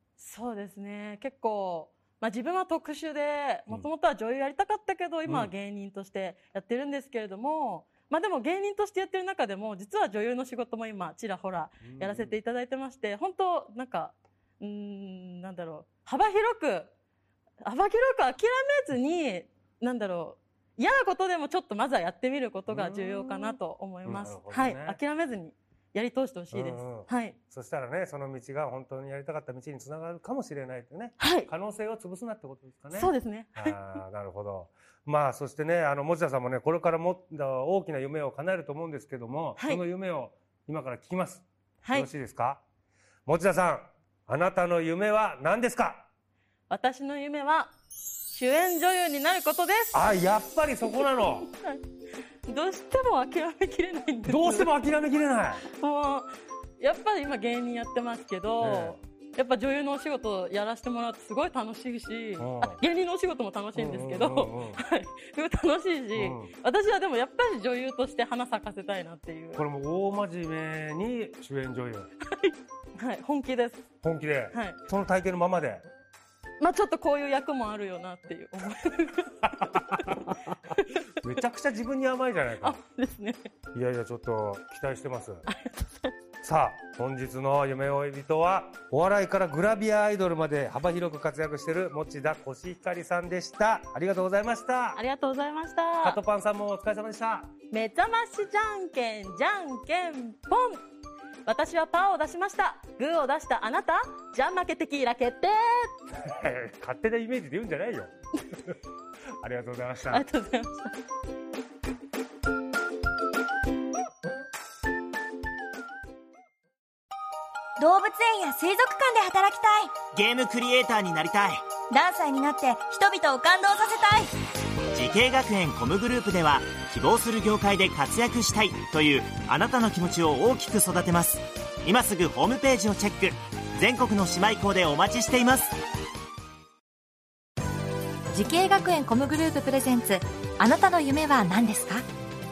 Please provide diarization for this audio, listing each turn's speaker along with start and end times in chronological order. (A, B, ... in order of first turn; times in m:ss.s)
0:00.2-0:16.9 A
0:05.2-0:05.5 B
0:11.8-0:12.3 B
0:17.6-0:27.4 A
0:22.7-0:25.0 B
0:26.5-0:42.6 B
0:31.2-0:31.5 A
0:32.9-0:34.0 A
0:41.8-0:42.1 A
0:43.2-0:46.1 B
0:46.7-0:47.7 A
0:48.3-0:50.0 A
0:49.9-0:51.5 B
0:51.4-0:51.8 A
0:52.4-0:54.7 A
0:54.2-0:55.6 B
0:55.6-1:09.6 A
0:58.6-0:59.0 B
1:02.4-1:02.8 B
1:03.7-1:04.8 B
1:06.1-1:06.5 B
1:09.6-1:12.1 B
1:12.3-1:13.9 A
1:14.0-1:15.8 B
1:14.5-1:14.8 A
1:16.6-1:21.1 A
1:19.6-1:20.4 B
1:21.2-1:22.8 B
1:22.6-1:23.5 A
1:23.7-1:25.4 B
1:25.5-1:26.1 A
1:26.4-1:35.0 B
1:34.9-1:36.2 A
1:36.0-1:37.5 B
1:37.7-1:40.8 A
1:41.4-1:46.0 A
1:46.2-1:48.1 B
1:49.4-1:50.2 B
1:50.1-1:51.0 A
1:57.8-1:59.9 C
2:00.1-2:01.6 D
2:01.9-2:04.3 C
2:04.9-2:15.7 D
2:18.3-2:22.0 E